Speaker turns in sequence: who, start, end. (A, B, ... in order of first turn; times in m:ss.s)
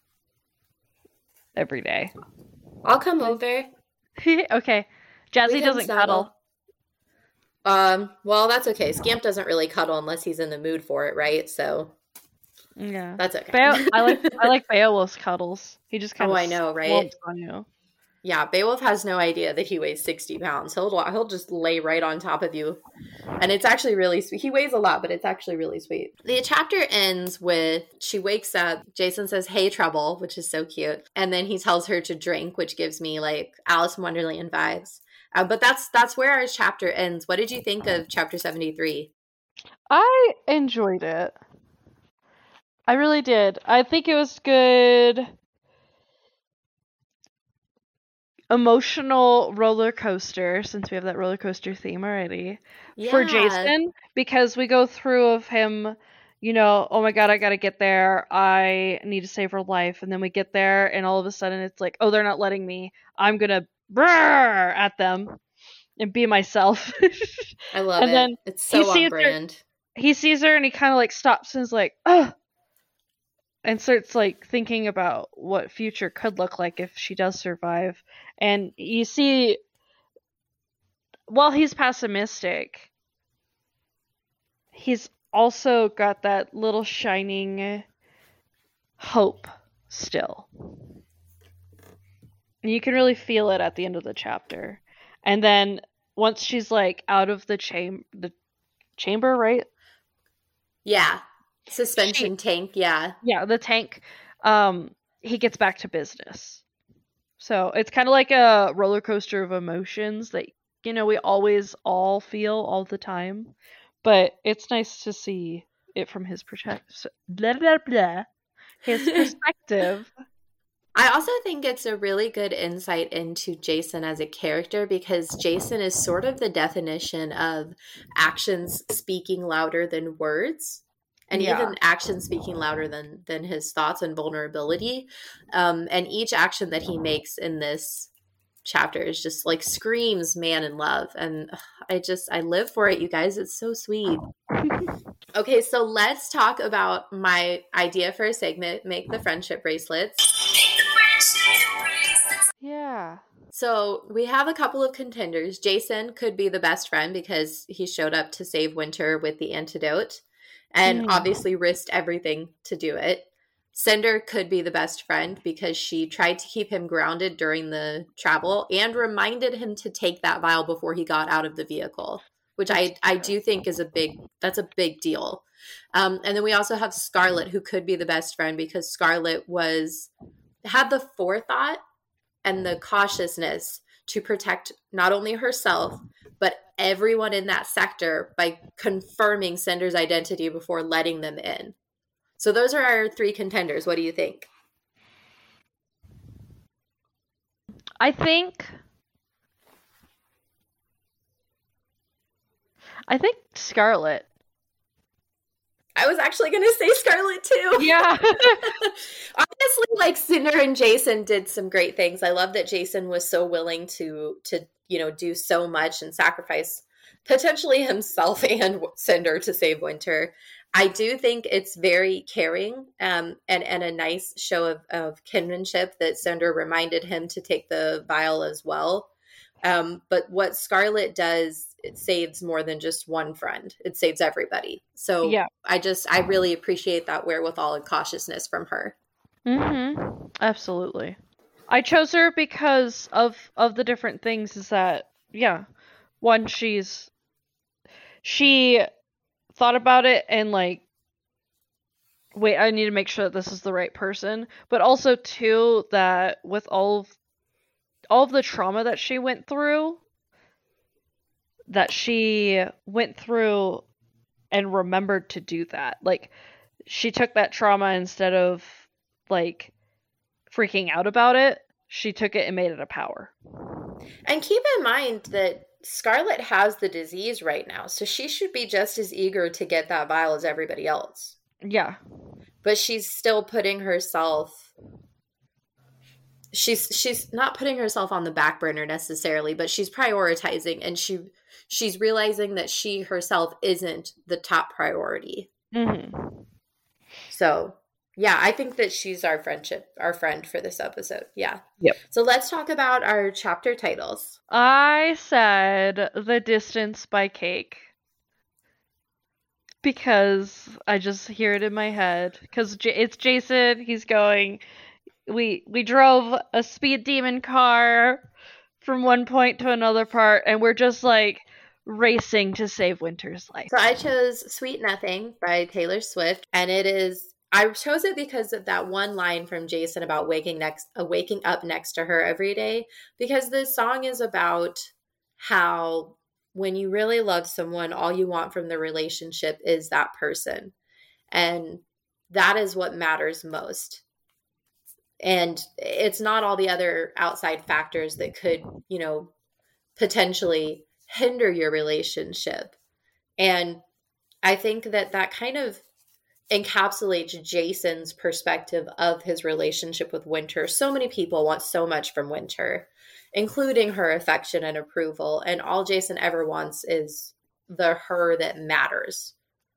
0:01.6-0:02.1 A
0:02.8-0:03.7 B
0:04.2-0:06.3 A
0:05.4-0:06.3 B
0:07.6-0:11.9 B
0:12.8-0:17.7 A
0:13.2-0:14.5 B
0:16.2-0:17.1 B
0:18.2-0:22.8 B
0:23.4-0:39.1 B
0:39.9-0:41.4 A
0:42.9-0:45.3 A
0:48.5-1:05.4 A
0:53.0-0:53.7 B
1:06.0-1:09.4 A
1:07.7-1:09.6 B
1:10.0-1:12.3 A
1:13.6-1:19.6 A
1:21.3-1:22.9 A
1:24.7-1:27.8 A
1:29.0-1:30.5 A
1:32.6-1:38.3 A
1:39.0-1:39.7 A
1:40.8-1:43.2 B
1:42.0-1:42.3 A
1:43.2-1:46.6 A
1:47.4-1:53.5 A
1:54.0-1:58.3 A
1:58.8-2:00.1 A
2:01.0-2:18.1 B
2:11.3-2:11.8 A
2:18.6-2:24.2 B
2:24.6-2:24.9 A
2:25.3-2:32.2 B
2:32.6-2:33.2 A
2:33.5-3:00.1 B
2:40.8-2:41.3 A
2:52.7-2:53.2 A
3:00.6-3:01.8 B
3:02.4-3:11.8 B
3:12.4-3:14.5 B
3:18.0-3:18.8 A
3:23.1-3:24.3 A
3:26.0-3:28.0 B
3:27.8-3:28.6 A
3:28.6-3:49.1 B
3:49.6-3:59.0 B
3:55.2-3:55.5 A
3:59.5-4:01.2 A
4:01.7-4:05.6 A
4:06.2-4:07.1 A
4:08.2-4:08.9 A
4:09.6-4:10.8 A
4:12.4-4:17.1 A
4:18.1-4:20.0 A
4:21.7-4:23.8 A
4:24.5-4:26.3 A
4:26.9-4:29.7 A
4:30.5-4:33.3 A
4:34.3-4:41.4 B
4:41.6-4:42.0 A
4:42.6-4:44.7 B
4:46.5-4:55.5 B
4:55.7-4:56.5 A
4:57.3-5:04.4 B
5:04.5-5:07.9 A
5:09.8-5:14.6 A
5:15.3-5:18.2 A
5:18.8-5:23.7 A
5:23.7-5:40.7 B
5:41.3-5:44.0 B
5:45.2-5:49.3 B
5:50.0-5:52.8 B
5:53.4-5:53.8 B
5:54.4-5:55.8 B
5:56.5-6:09.3 B